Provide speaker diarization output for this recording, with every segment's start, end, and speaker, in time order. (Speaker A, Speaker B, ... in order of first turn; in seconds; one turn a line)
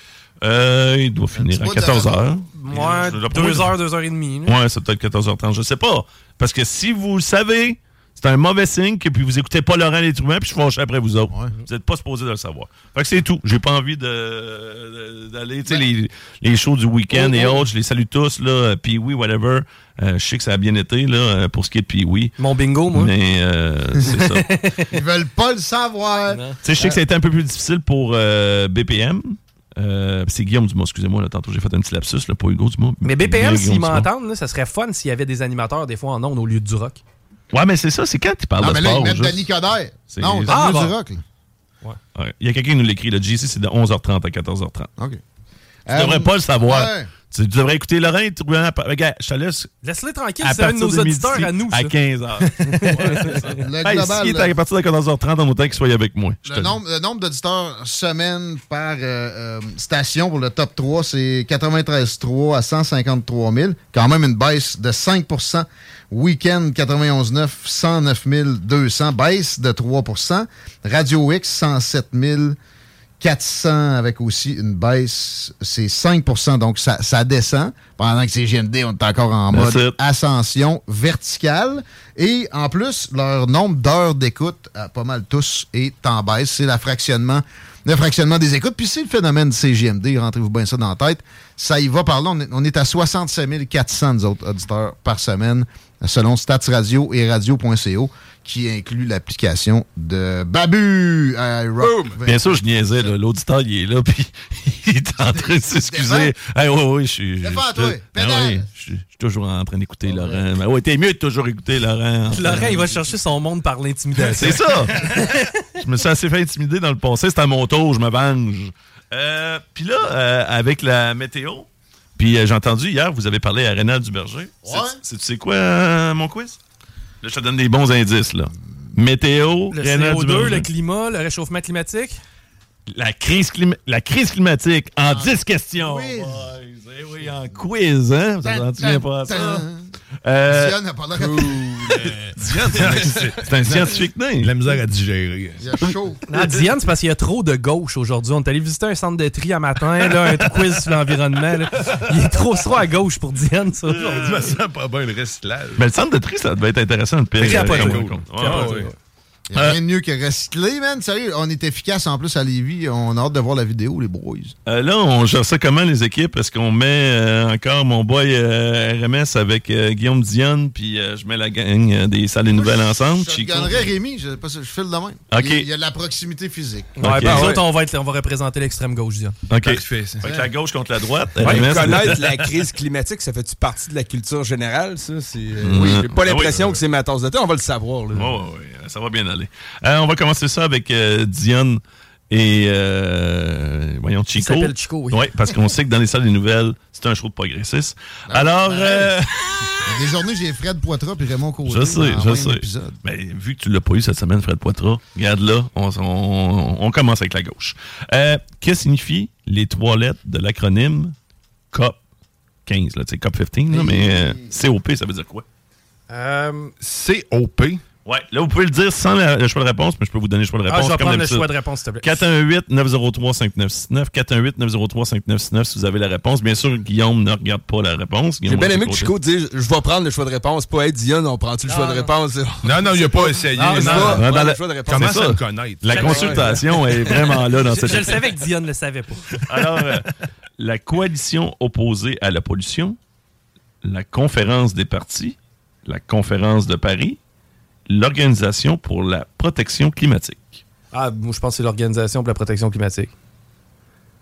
Speaker A: 0.4-3.7
Speaker B: 1.4-2.2
Speaker C: 2.5-4.6
Speaker A: 4.4-22.3
Speaker B: 17.1-17.7
Speaker C: 22.4-23.1
Speaker A: 22.9-24.5
Speaker C: 24.3-24.9
Speaker B: 24.9-27.0
Speaker C: 26.3-26.6
Speaker A: 26.6-34.1
Speaker C: 33.0-37.0
Speaker A: 37.5-39.4
Speaker B: 38.6-41.2
Speaker A: 40.1-40.8
Speaker C: 40.5-40.9
Speaker A: 42.1-44.9
Speaker B: 45.9-47.1
Speaker A: 45.9-49.7
Speaker C: 49.8-52.0
Speaker A: 50.4-56.8
Speaker C: 52.7-53.3
Speaker B: 53.6-54.5
Speaker B: 56.4-72.6
Speaker B: 73.2-103.1
Speaker A: 79.5-79.9
Speaker D: 101.8-102.2
Speaker A: 102.2-112.9
Speaker B: 105.2-106.3
Speaker B: 107.4-108.7
Speaker B: 110.0-110.4
Speaker C: 112.3-115.4
Speaker A: 114.3-115.2
Speaker A: 115.8-126.6
Speaker B: 124.6-125.0
Speaker A: 127.2-130.7
Speaker C: 129.7-132.2
Speaker A: 132.9-139.6
Speaker B: 135.0-136.5
Speaker B: 138.4-139.9
Speaker A: 140.2-140.8
Speaker B: 140.5-142.1
Speaker A: 141.8-144.5
Speaker E: 142.0-143.2
Speaker E: 144.4-145.7
Speaker B: 145.6-146.2
Speaker C: 146.3-154.3
Speaker E: 154.0-155.8
Speaker A: 155.8-158.9
Speaker C: 157.4-158.9
Speaker E: 157.5-158.9
Speaker B: 159.5-164.5
Speaker A: 164.7-173.9
Speaker B: 172.5-177.0
Speaker A: 175.3-175.7
Speaker C: 177.0-179.4
Speaker A: 177.0-177.5
Speaker D: 177.2-177.6
Speaker A: 179.5-182.4
Speaker E: 179.6-180.2
Speaker B: 180.2-180.5
Speaker D: 181.4-188.4
Speaker A: 185.6-186.8
Speaker B: 185.7-186.0
Speaker A: 188.1-199.7
Speaker C: 194.3-195.2
Speaker B: 198.3-199.1
Speaker B: 199.8-202.9
Speaker A: 201.6-211.1
Speaker A: 211.7-212.0
Speaker A: 212.7-215.4
Speaker B: 213.7-214.5
Speaker C: 216.1-216.7
Speaker E: 216.8-217.8
Speaker A: 218.1-221.5
Speaker C: 220.7-222.2
Speaker A: 222.0-229.1
Speaker D: 228.4-235.1
Speaker C: 231.7-232.1
Speaker E: 232.6-234.3
Speaker C: 233.5-234.2
Speaker A: 234.1-238.2
Speaker E: 234.8-236.5
Speaker C: 235.9-239.3
Speaker D: 236.0-236.6
Speaker A: 239.5-240.1
Speaker A: 240.6-243.0
Speaker A: 243.8-247.2
Speaker A: 247.9-250.6
Speaker C: 250.9-253.1